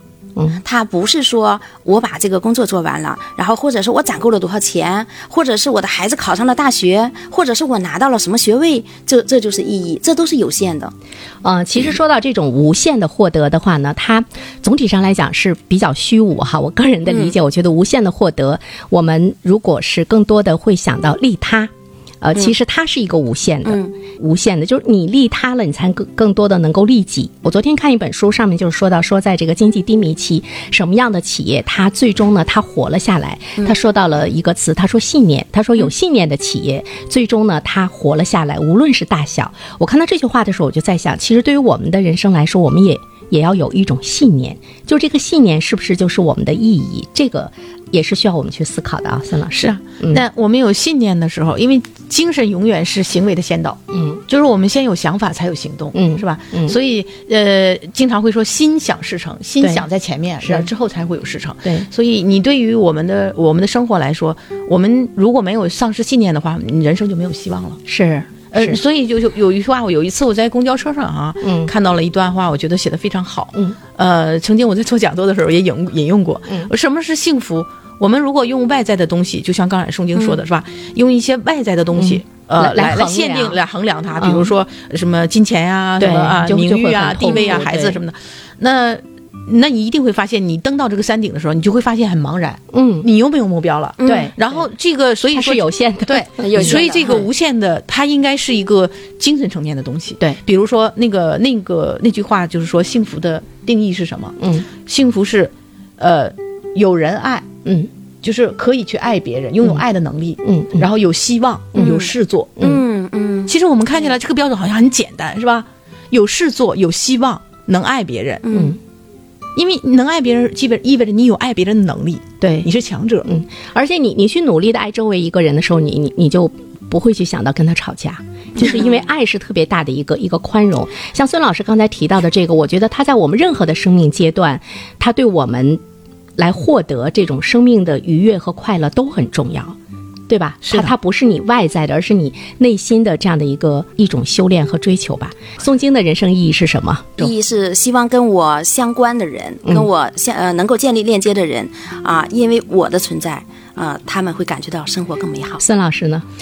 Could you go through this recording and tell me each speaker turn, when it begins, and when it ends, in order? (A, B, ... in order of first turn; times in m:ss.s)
0:00.6-0:10.9 A
0:11.4-0:50.2 B
0:17.1-0:17.3 A
0:23.6-0:23.9 A
0:49.5-1:07.8 C
0:53.9-0:54.2 B
0:55.9-0:56.8 B
0:59.6-0:59.9 B
1:00.4-1:00.7 B
1:07.9-1:08.8 B
1:08.5-1:47.5 C
1:11.4-1:11.7 B
1:22.0-1:23.6 B
1:24.2-1:24.5 B
1:26.0-1:28.0 B
1:27.2-1:27.6 A
1:32.7-1:33.1 B
1:34.0-1:34.3 A
1:34.0-1:34.6 B
1:35.3-1:36.8 B
1:36.4-1:37.3 A
1:44.4-1:44.7 B
1:47.6-1:47.9 B
1:48.2-1:52.7 C
1:50.4-1:50.9 B
1:51.8-1:54.1 A
1:53.5-1:58.4 C
1:58.4-1:58.8 A
1:58.5-1:58.8 B
1:59.6-2:03.3 C
2:02.4-2:02.7 B
2:03.2-2:15.8 B
2:08.6-2:08.9 A
2:16.4-2:19.8 B
2:20.3-2:27.3 B
2:20.6-2:20.9 C
2:27.2-2:35.6 A
2:35.6-2:36.2 B